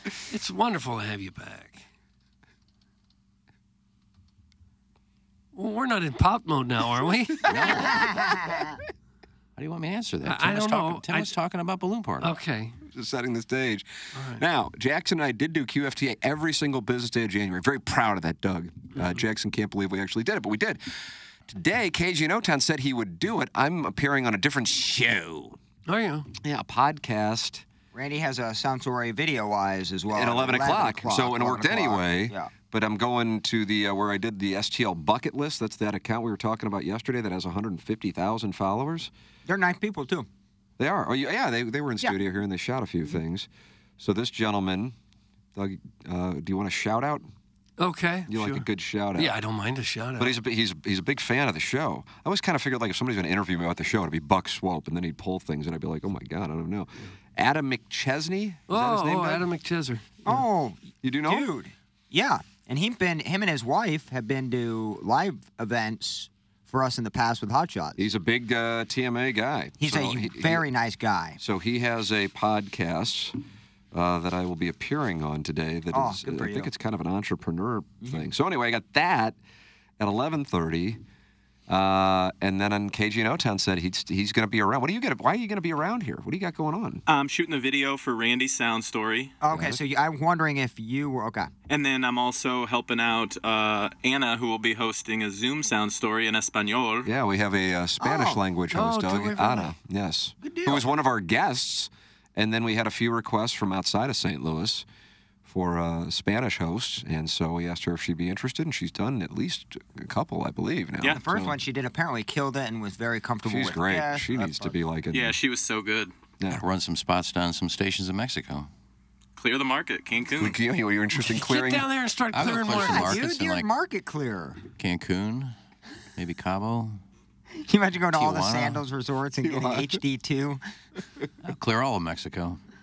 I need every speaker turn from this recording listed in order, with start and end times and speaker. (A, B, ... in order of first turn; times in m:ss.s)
0:00.3-0:01.8 A
0:05.5-0:07.6 A
0:07.5-0:08.1 B
0:07.6-0:08.8 C
0:09.6-0:12.3 B
0:10.2-0:11.3 A
0:12.2-0:12.8 A
0:12.9-0:20.8 D
0:14.1-0:14.4 A
0:21.5-0:25.6 D
0:25.9-0:26.3 A
0:26.4-0:27.6 D
0:27.9-0:32.5 C
0:30.1-0:39.1 D
0:39.5-0:40.3 C
0:40.8-0:43.5 D
0:44.0-0:45.0 D
0:45.6-0:47.3 D
0:47.8-0:50.4 A
0:48.3-0:49.3 D
0:50.2-0:59.5 D
0:58.7-1:00.4 A
1:00.2-1:08.0 C
1:01.0-1:01.5 D
1:08.0-1:10.7 D
1:09.8-1:11.4 C
1:11.4-1:13.4 D
1:13.9-1:19.4 D
1:15.9-1:16.7 C
1:20.0-1:21.0 D
1:21.7-1:27.0 D
1:27.1-1:29.3 E
1:29.4-1:31.5 C
1:29.5-1:29.8 D
1:31.7-1:37.1 E
1:37.0-1:44.8 D
1:38.0-1:38.4 C
1:38.7-1:39.7 A
1:40.4-1:40.9 C
1:45.5-1:51.6 D
1:51.1-1:54.8 C
1:53.4-1:55.4 D
1:55.1-1:56.1 E
1:56.5-1:58.7 B
1:59.4-2:00.6 E
2:00.4-2:01.9 D
2:01.2-2:03.2 A
2:02.3-2:03.7 B
2:02.7-2:04.6 C
2:04.8-2:05.5 B
2:06.2-2:07.0 B
2:07.6-2:10.6 C
2:08.1-2:08.8 B
2:09.4-2:10.0 D
2:11.4-2:12.6 B